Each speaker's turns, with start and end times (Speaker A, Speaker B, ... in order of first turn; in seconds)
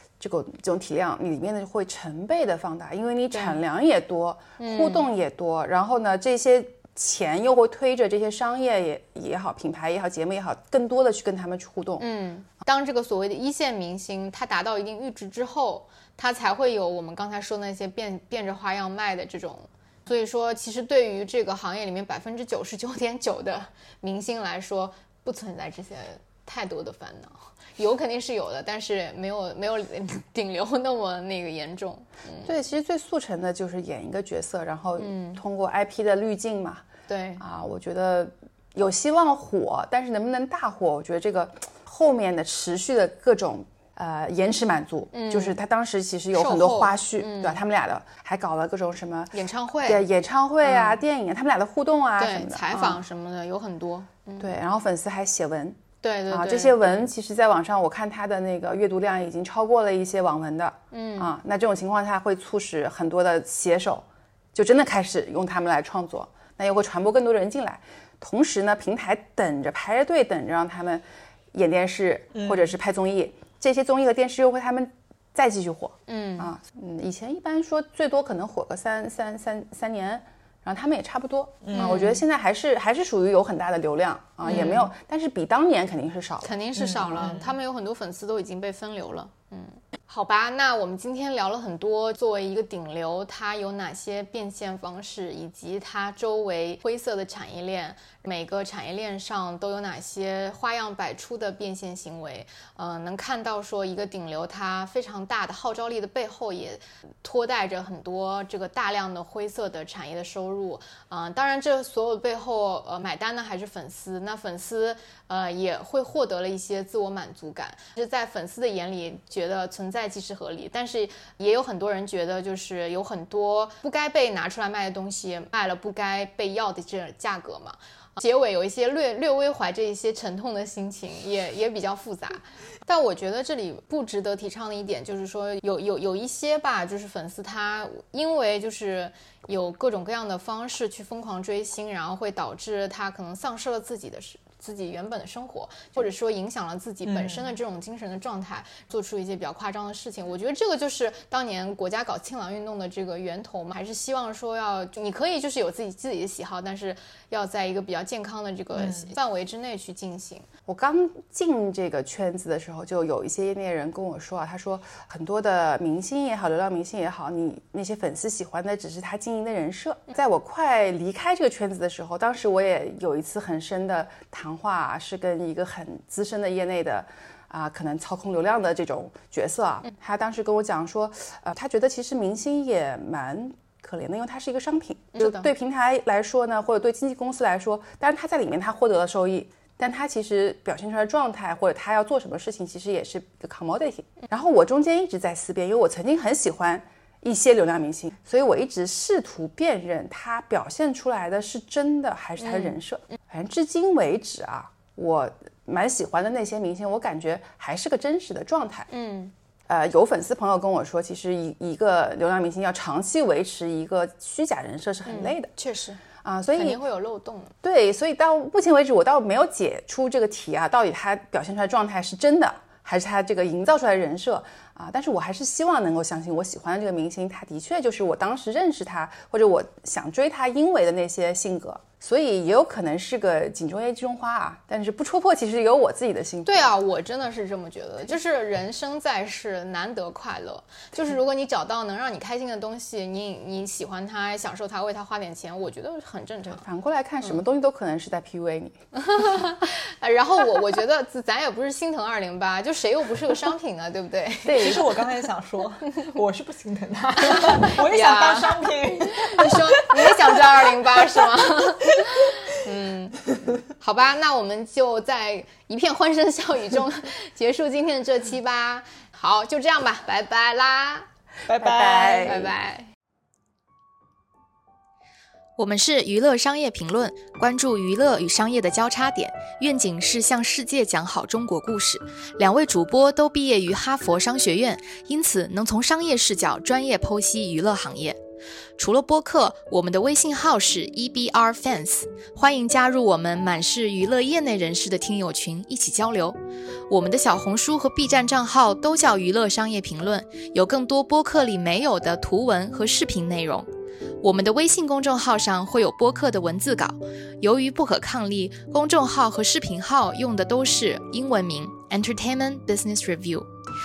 Speaker A: 0.2-12.1, 32.5-36.8, 37.4-49.3, 49.9-53.0, 54.4-87.4, 160.7-208.9, 209.7-215.5, 216.2-216.8, 217.6-236.7, 246.5-248.8, 254.4-254.9, 271.6-272.5
Speaker B: 3.3-3.6, 4.6-5.1, 12.0-32.5, 35.0-35.4, 37.1-37.4, 45.1-45.6, 46.3-47.6, 49.3-50.1, 50.6-51.0, 52.2-54.6, 56.0-57.1, 60.9-61.3, 76.1-76.5, 81.7-82.2, 84.4-84.9, 86.4-160.5, 185.1-185.5, 202.4-202.8, 208.9-209.3, 215.1-217.5, 236.5-246.7, 249.0-254.9, 257.2-271.1, 272.1-272.9, 275.6-288.2, 288.8-296.4, 296.9-303.7, 304.2-313.5
Speaker C: 72.3-72.7, 81.6-82.1, 86.8-87.5, 147.1-147.5, 158.8-159.1, 254.5-262.4, 271.5-272.5